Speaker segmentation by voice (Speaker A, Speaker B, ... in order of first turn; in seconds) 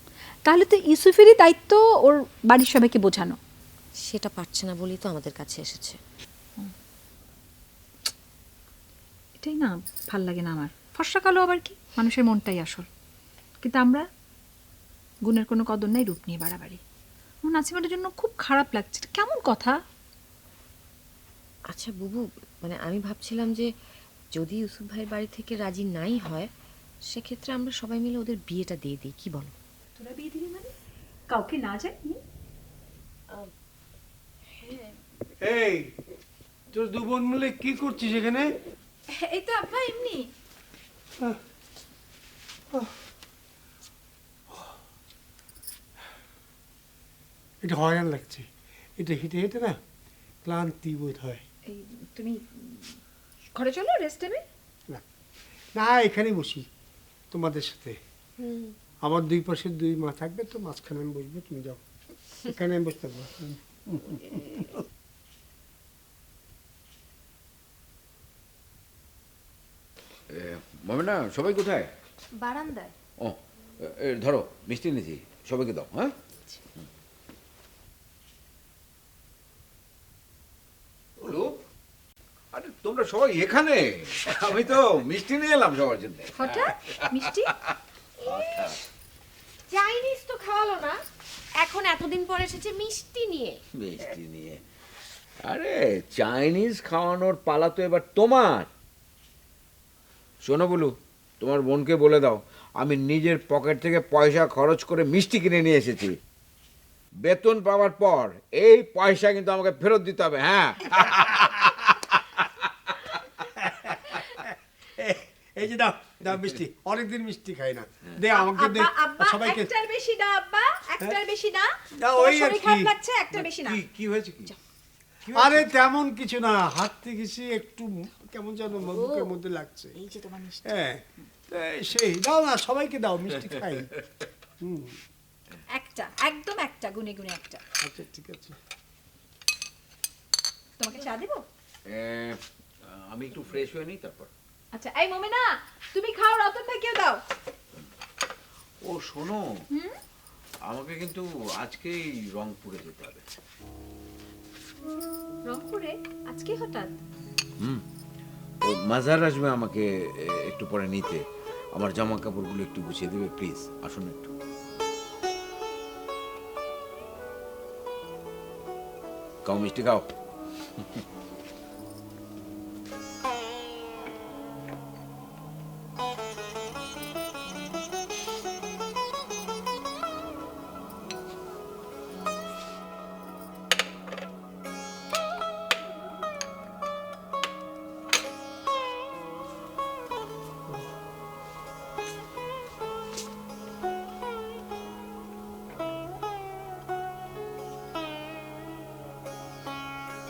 Speaker A: 0.5-3.4, 9.4-12.9, 13.6-14.0, 15.2-16.8, 17.4-19.8, 30.0-30.7, 31.3-32.2, 39.1-40.3, 51.6-53.0, 53.5-54.4, 72.3-72.9, 86.3-87.5, 118.3-123.8, 130.1-130.6, 135.7-137.6, 140.8-141.4, 144.7-147.2, 155.5-156.9
Speaker B: 4.0-6.0, 21.7-23.7, 24.3-26.5, 27.1-29.5, 34.5-34.9, 89.7-90.8, 91.6-93.0
Speaker C: 35.4-35.9, 36.7-38.5, 47.6-49.8, 50.4-51.4, 55.8-56.7, 57.3-58.0, 59.0-61.8, 62.4-64.7, 113.6-119.7, 121.9-122.9, 125.3-129.9, 130.6-133.9, 134.6-135.0, 137.8-138.6
Speaker D: 70.3-71.9, 73.2-76.1, 81.2-81.5, 82.5-87.7, 88.2-88.8, 93.8-94.6, 95.4-98.7, 100.4-106.2, 107.2-112.5, 123.4-124.5, 141.9-144.3, 148.8-149.5, 150.7-153.2, 158.6-161.2, 161.7-164.3, 169.4-170.1